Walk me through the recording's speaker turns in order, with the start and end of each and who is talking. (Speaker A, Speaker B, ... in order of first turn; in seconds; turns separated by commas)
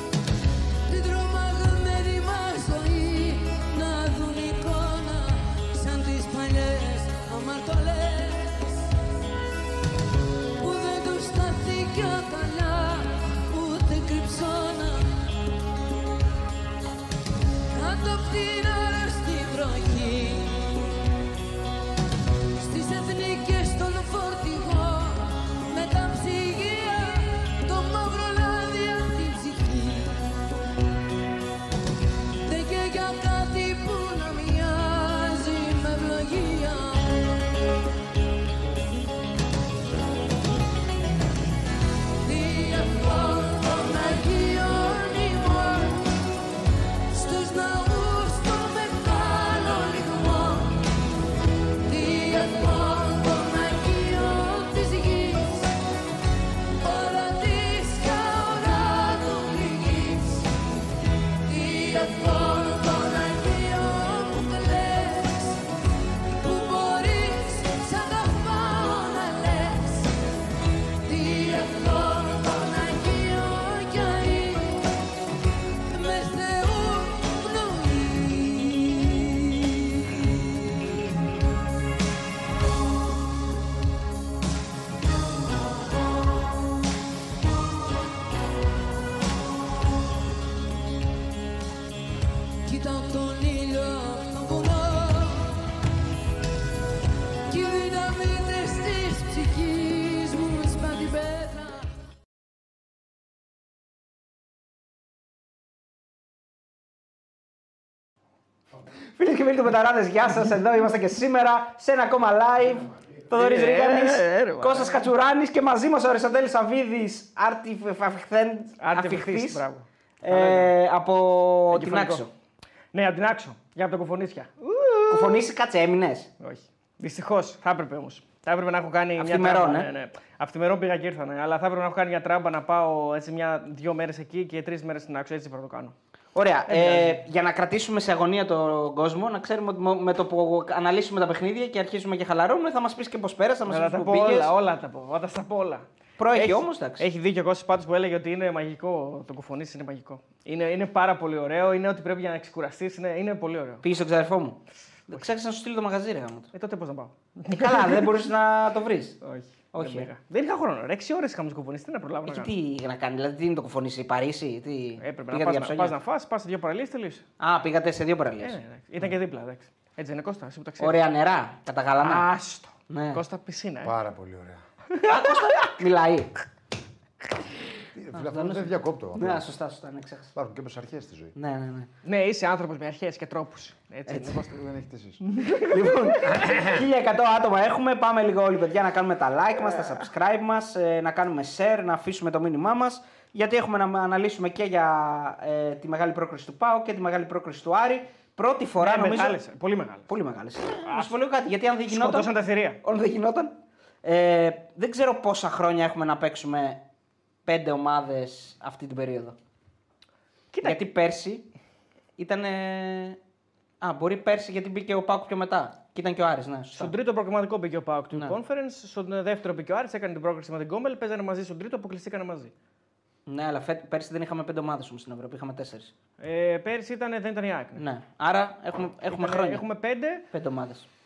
Speaker A: 0.9-8.9, Speaker A: 10.6-15.2, Speaker A: 17.7-20.8, Speaker A: 22.6-30.2, Speaker A: 32.4-37.3, Speaker A: 42.2-46.0, Speaker A: 47.1-50.9, Speaker A: 51.8-55.7, Speaker A: 56.8-60.5, Speaker A: 61.4-65.6, Speaker A: 66.3-70.2, Speaker A: 71.0-74.9, Speaker A: 75.9-80.2, Speaker A: 92.7-95.6, Speaker A: 97.5-101.9, Speaker B: 109.1-119.6, Speaker C: 113.3-115.0, Speaker C: 118.8-120.7, Speaker B: 120.2-122.3, Speaker C: 121.7-122.2, Speaker C: 122.9-125.5, Speaker B: 125.1-126.3, Speaker C: 126.4-135.9, Speaker B: 129.2-129.9, Speaker B: 136.3-144.5, Speaker C: 136.7-137.2, Speaker C: 143.7-153.8, Speaker B: 146.2-147.1, Speaker B: 153.8-156.5, Speaker C: 156.5-158.3, Speaker B: 157.5-159.2, Speaker C: 159.2-162.5, Speaker B: 159.7-160.1, Speaker B: 162.2-165.9, Speaker C: 165.0-167.2, Speaker B: 167.4-168.6, Speaker C: 168.4-171.0, Speaker B: 170.8-172.3, Speaker C: 172.0-173.9, Speaker B: 172.9-173.2, Speaker D: 173.8-174.6, Speaker C: 174.9-175.7, Speaker B: 175.0-176.3, Speaker D: 177.9-179.4, Speaker B: 178.1-180.3, Speaker D: 180.3-181.3, Speaker B: 181.3-181.9, Speaker C: 182.0-184.5, Speaker B: 184.1-184.4, Speaker D: 184.4-185.2, Speaker B: 185.2-199.4, Speaker C: 185.4-186.1, Speaker D: 186.2-186.8, Speaker C: 198.8-200.1, Speaker B: 200.1-206.8, Speaker C: 200.9-201.1, Speaker C: 201.9-202.8, Speaker B: 207.4-209.3, Speaker C: 210.5-210.8, Speaker B: 210.6-211.5, Speaker B: 212.2-213.2, Speaker B: 213.8-216.9, Speaker C: 216.8-222.5, Speaker B: 223.3-225.9, Speaker C: 226.2-227.8, Speaker B: 227.8-229.6, Speaker C: 229.1-230.2, Speaker B: 230.3-230.9